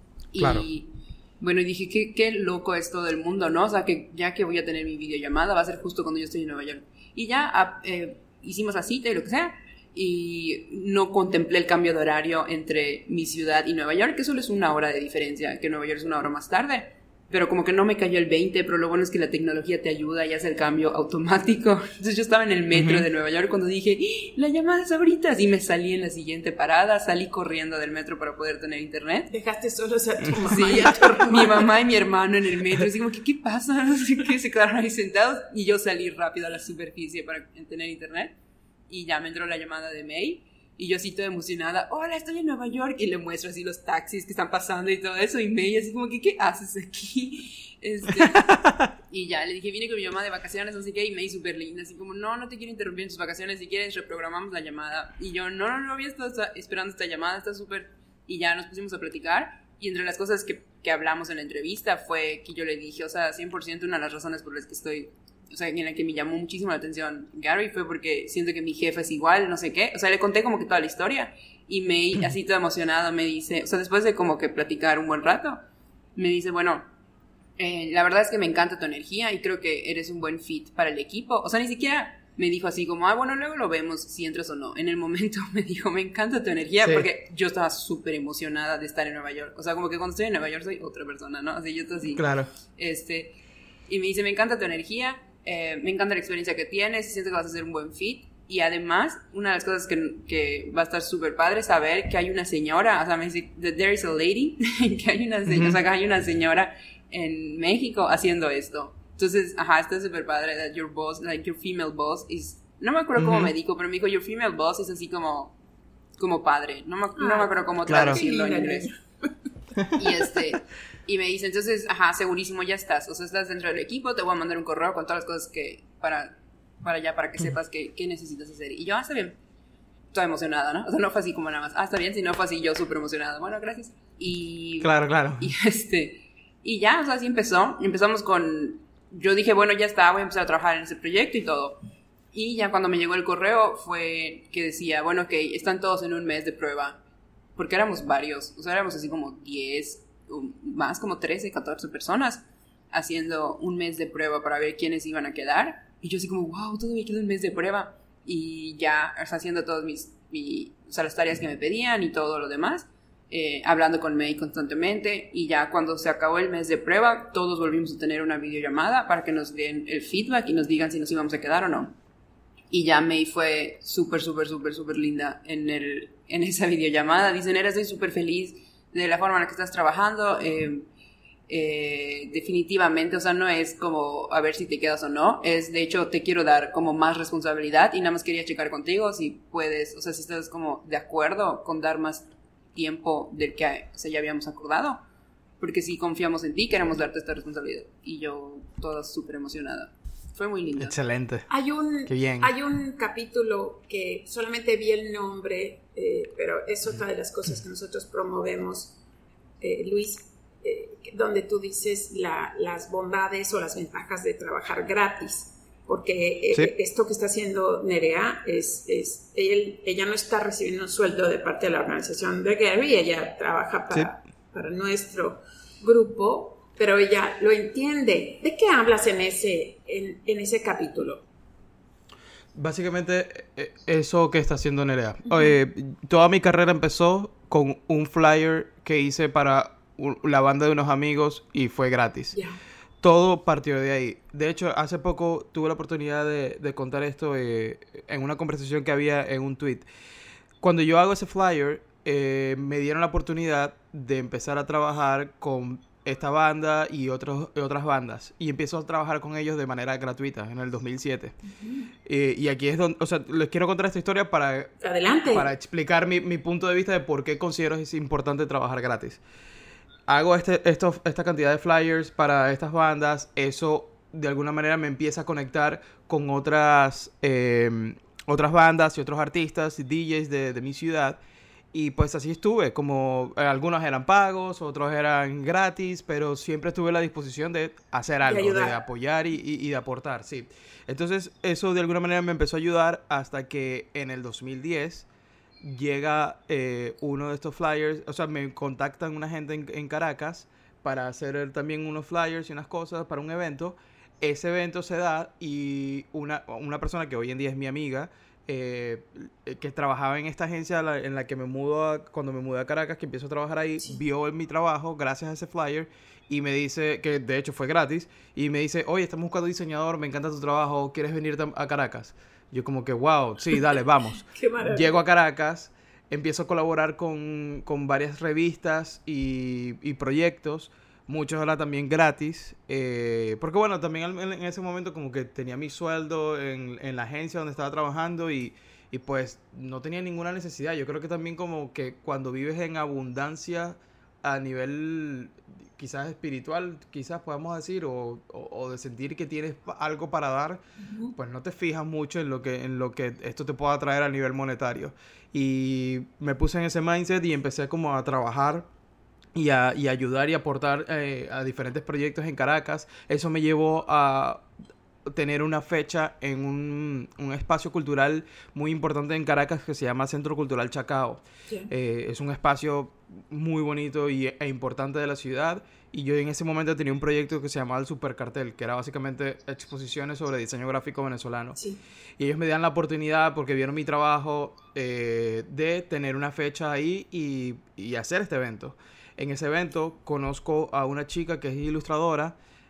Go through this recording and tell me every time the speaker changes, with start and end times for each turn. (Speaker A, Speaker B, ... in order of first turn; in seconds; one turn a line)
Speaker A: 0.3-29.3
Speaker B: 0.4-0.7
Speaker B: 22.7-23.1
Speaker C: 29.3-31.7
Speaker A: 30.5-38.3
Speaker A: 38.9-75.6
Speaker B: 48.2-48.9
Speaker A: 76.2-76.9
Speaker A: 77.6-92.2
Speaker B: 86.8-87.1
Speaker B: 92.1-92.5
Speaker A: 92.8-93.4
Speaker A: 93.9-115.5
Speaker B: 105.5-105.8
Speaker B: 113.2-113.5
Speaker A: 116.2-118.9
Speaker C: 117.2-119.0
Speaker B: 117.9-118.2
Speaker A: 120.0-129.3
Speaker A: 130.1-147.0
Speaker B: 134.8-135.5
Speaker A: 147.6-171.9
Speaker A: 172.7-180.9
Speaker A: 181.5-195.0
Speaker A: 195.6-200.9
Speaker B: 200.8-201.5
Speaker C: 201.5-209.0
Speaker B: 202.1-202.5
Speaker C: 209.6-231.2
Speaker B: 232.5-242.4
Speaker C: 242.3-242.6
Speaker B: 243.0-249.8
Speaker B: 250.6-261.4
Speaker C: 261.5-261.9
Speaker B: 262.0-269.2
Speaker C: 264.8-265.5
Speaker B: 270.1-281.2
Speaker B: 281.7-295.1
Speaker C: 288.2-288.8
Speaker B: 295.6-350.6
Speaker C: 324.3-324.9
Speaker C: 350.8-351.1
Speaker B: 351.1-358.7
Speaker B: 359.3-364.4
Speaker B: 365.1-381.6
Speaker B: 382.2-392.4